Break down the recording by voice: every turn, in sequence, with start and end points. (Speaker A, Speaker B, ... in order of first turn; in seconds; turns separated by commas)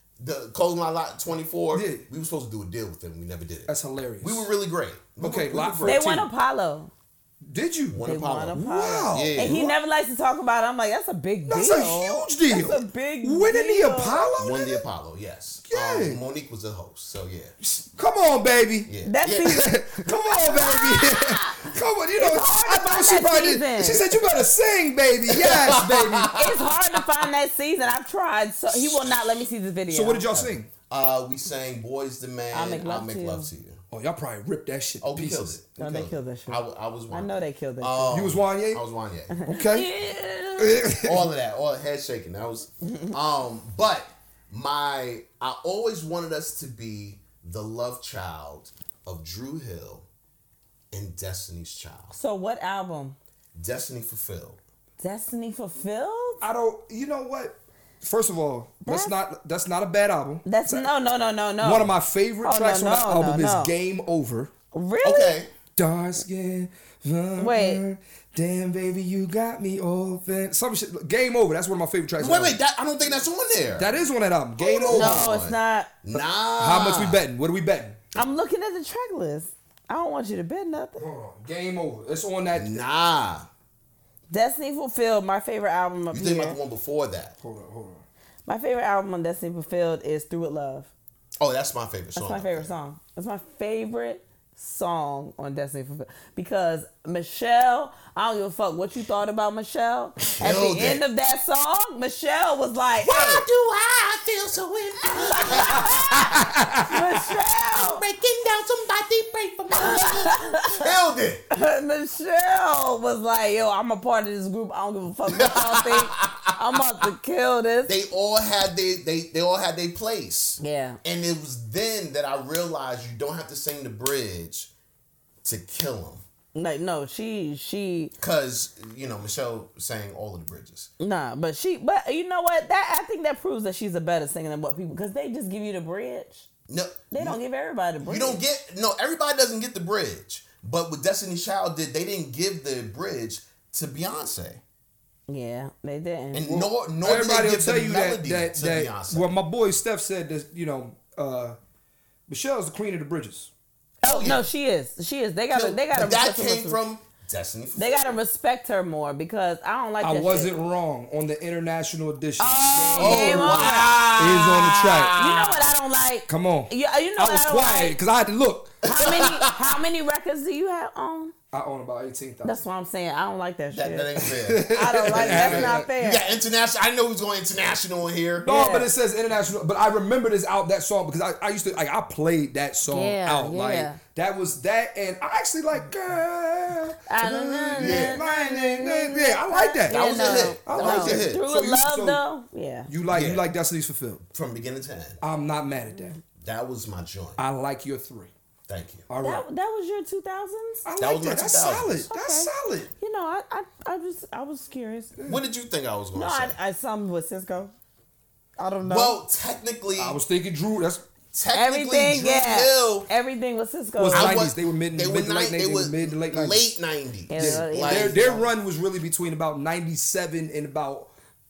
Speaker A: 0.2-6.1, Speaker B: 1.7-2.1, Speaker B: 3.7-4.5, Speaker B: 5.2-6.3, Speaker C: 5.8-6.9, Speaker B: 7.4-9.8, Speaker A: 7.9-8.6, Speaker C: 8.1-14.3, Speaker A: 9.1-9.6, Speaker B: 11.5-14.8, Speaker A: 14.4-17.6, Speaker B: 15.7-16.2, Speaker B: 17.6-18.9, Speaker A: 18.9-19.6, Speaker C: 19.1-24.1, Speaker B: 19.4-26.4, Speaker A: 25.3-26.6, Speaker C: 26.4-30.3, Speaker A: 28.7-29.2, Speaker B: 29.9-30.7, Speaker A: 30.3-33.8, Speaker C: 32.5-33.5, Speaker B: 33.9-35.6, Speaker A: 35.0-39.4, Speaker C: 35.8-38.2, Speaker B: 38.1-38.8, Speaker C: 39.3-40.9, Speaker B: 39.5-39.9, Speaker B: 40.6-41.3, Speaker A: 41.0-50.1, Speaker C: 42.9-43.1, Speaker A: 50.9-52.2, Speaker C: 52.1-53.2, Speaker A: 53.5-54.6, Speaker C: 55.0-56.4, Speaker B: 56.4-60.9, Speaker C: 58.9-59.1, Speaker C: 60.5-63.7, Speaker B: 61.6-64.5, Speaker C: 64.7-65.4, Speaker A: 65.0-65.5, Speaker B: 65.8-72.6, Speaker C: 67.4-67.8, Speaker A: 72.2-74.0, Speaker B: 73.8-75.4, Speaker A: 74.6-77.2, Speaker C: 74.9-75.9, Speaker B: 76.2-78.0, Speaker C: 78.2-81.0, Speaker B: 81.0-82.8, Speaker A: 82.5-83.5, Speaker C: 84.3-86.6, Speaker A: 86.1-87.4, Speaker B: 87.4-88.0, Speaker C: 88.5-90.9, Speaker A: 91.4-92.7, Speaker C: 92.2-103.4, Speaker A: 100.3-101.0, Speaker A: 103.0-111.5, Speaker C: 105.1-108.0, Speaker B: 106.4-106.8, Speaker C: 109.8-110.8, Speaker C: 111.5-117.9, Speaker A: 115.3-116.5, Speaker A: 117.9-124.7, Speaker C: 120.6-121.0, Speaker A: 125.4-126.2, Speaker C: 126.5-128.1, Speaker A: 128.2-130.9, Speaker C: 131.0-136.5, Speaker A: 136.7-137.4, Speaker C: 137.1-138.4, Speaker A: 138.0-144.6, Speaker C: 145.3-146.6, Speaker A: 146.3-149.3, Speaker B: 146.5-151.6, Speaker B: 152.3-153.5, Speaker A: 154.0-154.4, Speaker C: 154.0-156.8, Speaker A: 155.5-158.2, Speaker C: 157.8-160.5, Speaker B: 160.0-165.2, Speaker C: 162.4-164.0, Speaker A: 163.0-165.6, Speaker C: 165.2-168.0, Speaker B: 166.3-168.8, Speaker C: 168.8-171.3, Speaker A: 168.9-169.6, Speaker B: 171.5-172.6, Speaker C: 172.4-174.1, Speaker A: 173.7-178.5, Speaker B: 174.2-175.9, Speaker C: 174.7-176.2, Speaker B: 178.4-192.2, Speaker C: 178.4-178.9, Speaker C: 182.9-184.0, Speaker C: 187.1-192.9, Speaker A: 187.8-188.2, Speaker A: 189.9-191.4, Speaker B: 192.9-194.2, Speaker A: 193.1-193.4, Speaker A: 194.3-195.2, Speaker B: 195.2-196.2, Speaker A: 196.4-197.4, Speaker B: 197.4-198.3, Speaker A: 198.7-199.1, Speaker B: 199.1-199.4, Speaker C: 199.2-200.8, Speaker B: 200.8-202.9, Speaker A: 201.0-202.1, Speaker C: 202.1-205.1, Speaker B: 205.2-205.4, Speaker A: 205.3-206.6, Speaker C: 206.1-207.7, Speaker C: 208.6-209.2, Speaker A: 208.8-210.2, Speaker B: 210.0-211.1, Speaker A: 211.3-213.1, Speaker C: 211.5-214.4, Speaker B: 214.0-216.6, Speaker A: 214.1-218.4, Speaker C: 217.3-218.4, Speaker B: 217.3-221.1